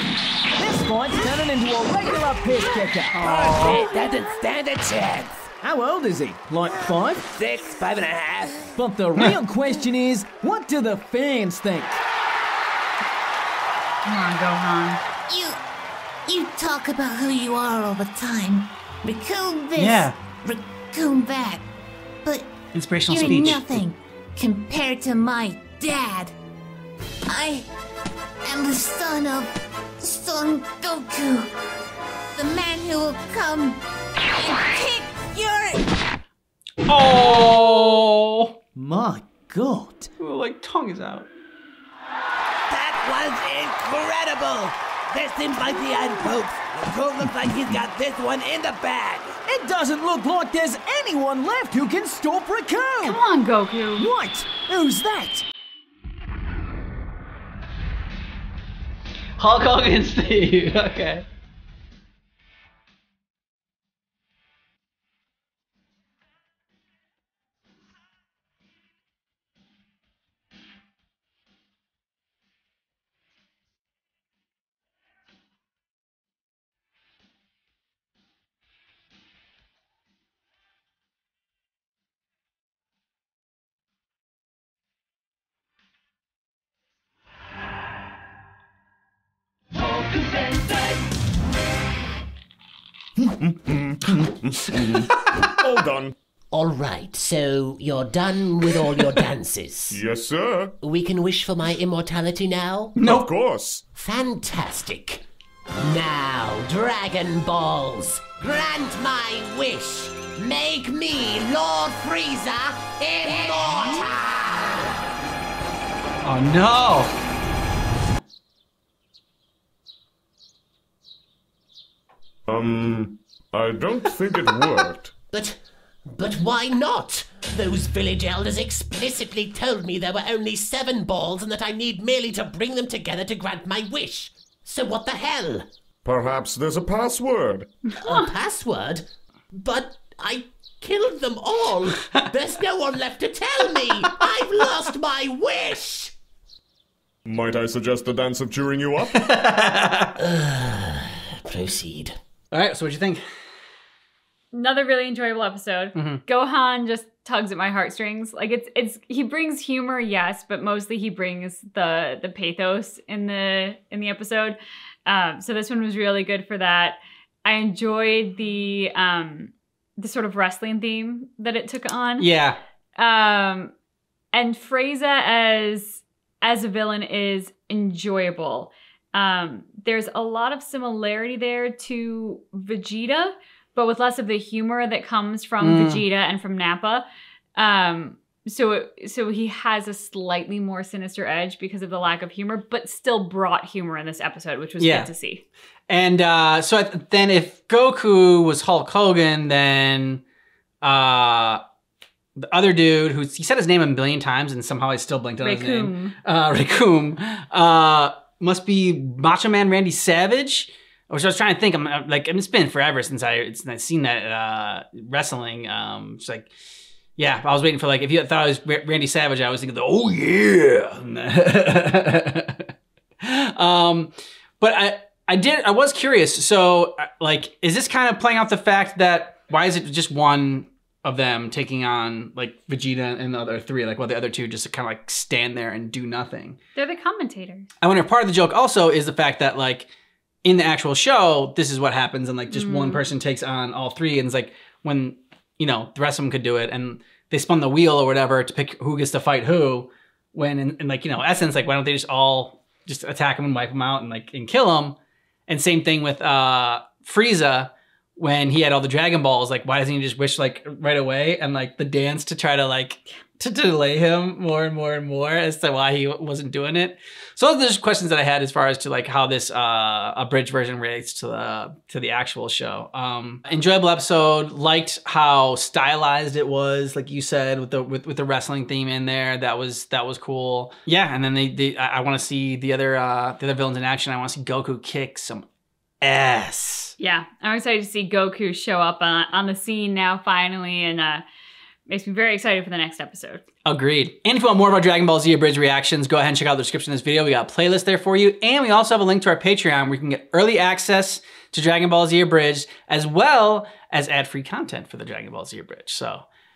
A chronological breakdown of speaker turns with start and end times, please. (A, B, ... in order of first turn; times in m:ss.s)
0:00.6-0:03.3 A
0:03.2-0:03.9 B
0:03.2-0:05.5 C
0:05.6-0:07.3 A
0:07.2-0:08.7 C
0:08.7-0:12.0 A
0:14.0-0:15.0 D
0:15.3-0:15.6 E
0:16.3-0:21.6 E
0:19.8-0:20.2 B
0:22.2-0:22.5 E
0:22.7-0:23.8 B
0:23.1-0:26.3 E
0:27.3-0:27.7 E
0:28.4-0:31.5 E
0:32.4-0:33.8 E
0:34.4-0:35.8 E
0:36.8-0:38.5 B
0:38.8-0:40.1 A
0:40.2-0:41.3 B
0:42.7-0:49.3 C
0:49.5-0:53.2 A
0:53.0-0:54.1 D
0:54.0-0:55.4 A
0:59.4-1:01.2 B
1:33.5-1:36.1 F
1:36.5-1:40.0 G
1:39.9-1:40.7 F
1:40.8-1:43.0 G
1:43.0-1:43.3 B
1:43.1-1:43.8 F
1:44.0-1:45.2 G
1:45.8-1:54.8 G
1:56.2-1:57.1 B
2:02.5-2:05.1 F
2:05.3-2:15.7 G
2:16.0-2:17.7 F
2:18.0-2:26.1 G
2:27.3-2:29.3 F
2:29.2-2:30.1 B
2:30.2-2:32.2 G
2:32.5-2:33.2 B
2:34.5-2:52.3 D
2:36.0-2:36.2 B
2:52.2-2:52.6 B
2:53.0-2:53.7 D
2:54.3-3:07.0 D
3:05.6-3:06.1 B
3:07.6-3:15.4 D
3:14.8-3:15.1 B
3:15.9-3:20.2 B
3:20.8-3:21.6 B
3:22.4-3:36.5 B
3:25.4-3:26.2 D
3:37.2-3:42.7 B
3:43.2-3:56.6 B
3:56.8-3:57.7 D
3:57.8-3:59.9 B
4:00.4-4:15.0 B
4:02.5-4:03.1 D
4:15.5-4:45.5 B
4:46.0-4:46.9 B
4:47.0-4:51.2 D
4:51.9-4:53.5 D
4:53.6-5:06.2 B